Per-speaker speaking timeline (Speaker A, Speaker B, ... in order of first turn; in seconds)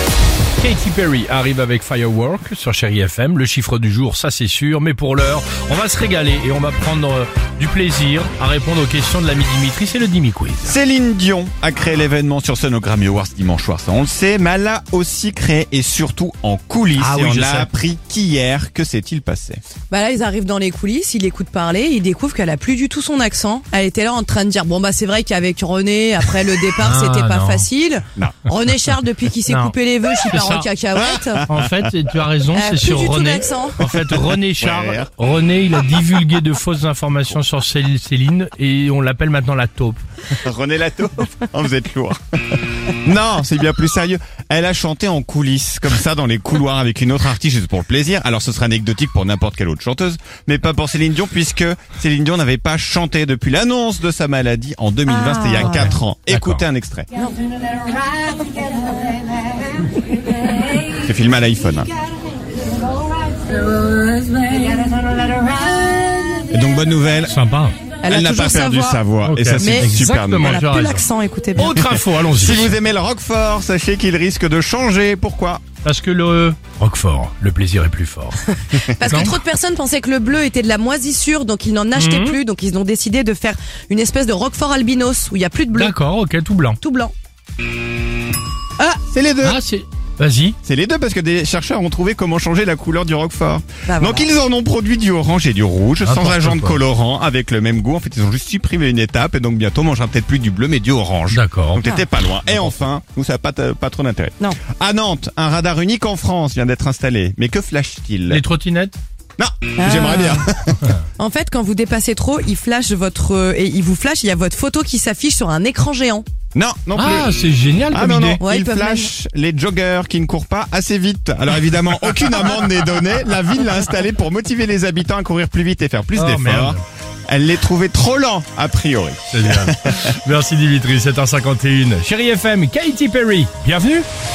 Speaker A: 0.6-10.8, 17.0-17.7, 26.8-27.7, 29.5-29.7, 30.3-30.6, 31.5-40.0, 55.6-56.6, 67.3-67.8, 69.2-71.1, 71.6-72.8, 75.8-78.4, 82.0-82.4, 85.7-86.8, 89.4-90.6, 96.0-96.8, 101.3-101.8, 102.5-102.7, 108.3-109.0, 117.0-118.4, 126.2-126.8, 129.3-134.1
Speaker B: 10.6-19.6, 31.1-31.7, 33.8-35.1, 40.3-57.1, 61.0-61.9, 66.5-67.3, 68.1-70.6, 71.8-75.6, 78.8-79.3, 89.1-89.6, 90.6-108.4, 109.4-110.9, 116.5-117.3, 117.9-130.2
Speaker C: 19.9-31.5, 32.5-33.8, 55.1-56.0, 68.0-69.0, 69.6-71.8, 78.5-85.9, 86.8-87.1, 93.9-94.3, 101.8-102.1, 109.8-110.5, 111.2-116.2, 118.4-119.1